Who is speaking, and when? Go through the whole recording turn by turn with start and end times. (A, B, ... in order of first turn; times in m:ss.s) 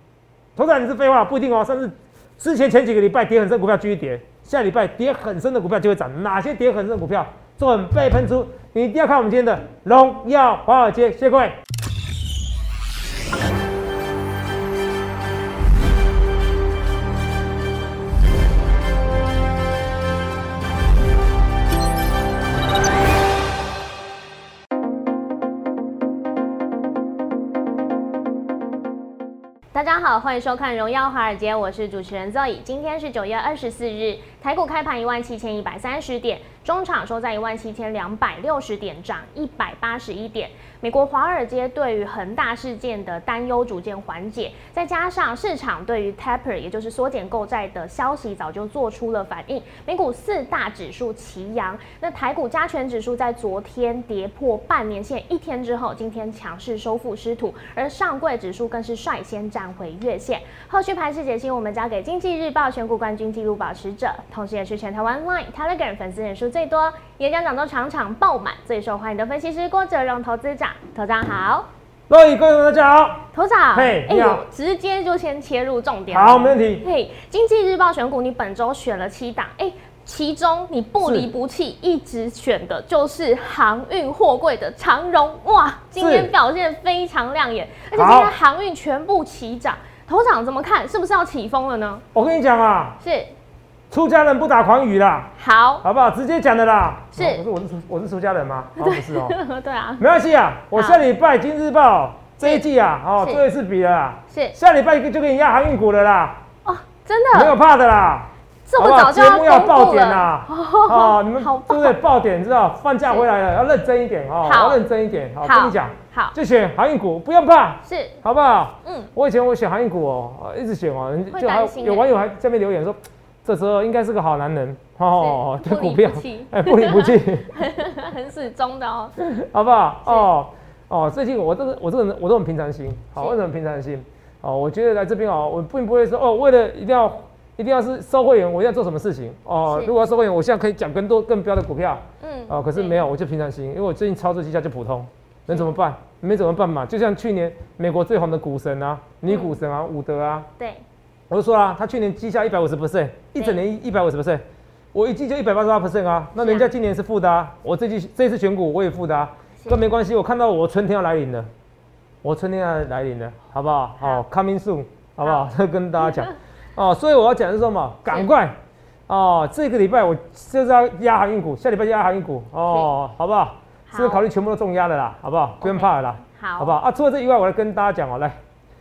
0:00.6-0:11.6 A
0:29.7-1:11.7 B
1:12.1-1:14.4 A
1:13.3-1:32.0 B
1:16.1-1:16.8 A
1:21.0-1:21.3 A
1:26.0-1:26.3 A
1:27.9-1:28.4 A
1:32.1-1:33.0 A
1:33.0-1:33.3 B
1:33.9-1:39.4 A
1:35.4-1:35.8 B
1:37.2-1:37.4 B
1:38.8-1:40.0 B
1:40.0-1:46.4 A
1:40.8-1:41.0 B
1:44.3-1:44.6 B
1:46.6-1:47.6 B
1:47.3-2:07.5 A
1:48.7-1:52.0 B
1:54.4-1:54.8 B
1:55.4-1:56.4 B
1:57.8-1:58.2 B
1:58.8-1:59.1 B
2:01.3-2:02.1 B
2:05.2-2:09.2 B
2:09.2-2:30.5 A
2:10.1-2:10.3 B
2:19.7-2:19.9 B
2:22.2-2:23.1 B
2:25.5-2:25.7 B
2:29.3-2:29.6 B
2:30.6-2:30.8 B
2:31.3-2:41.5 A
2:36.4-2:36.7 B
2:42.2-2:48.6 A
2:45.2-2:45.5 B
2:49.1-2:58.4 A
2:52.7-2:52.9 B
2:53.9-2:54.2 B
2:55.6-2:56.8 B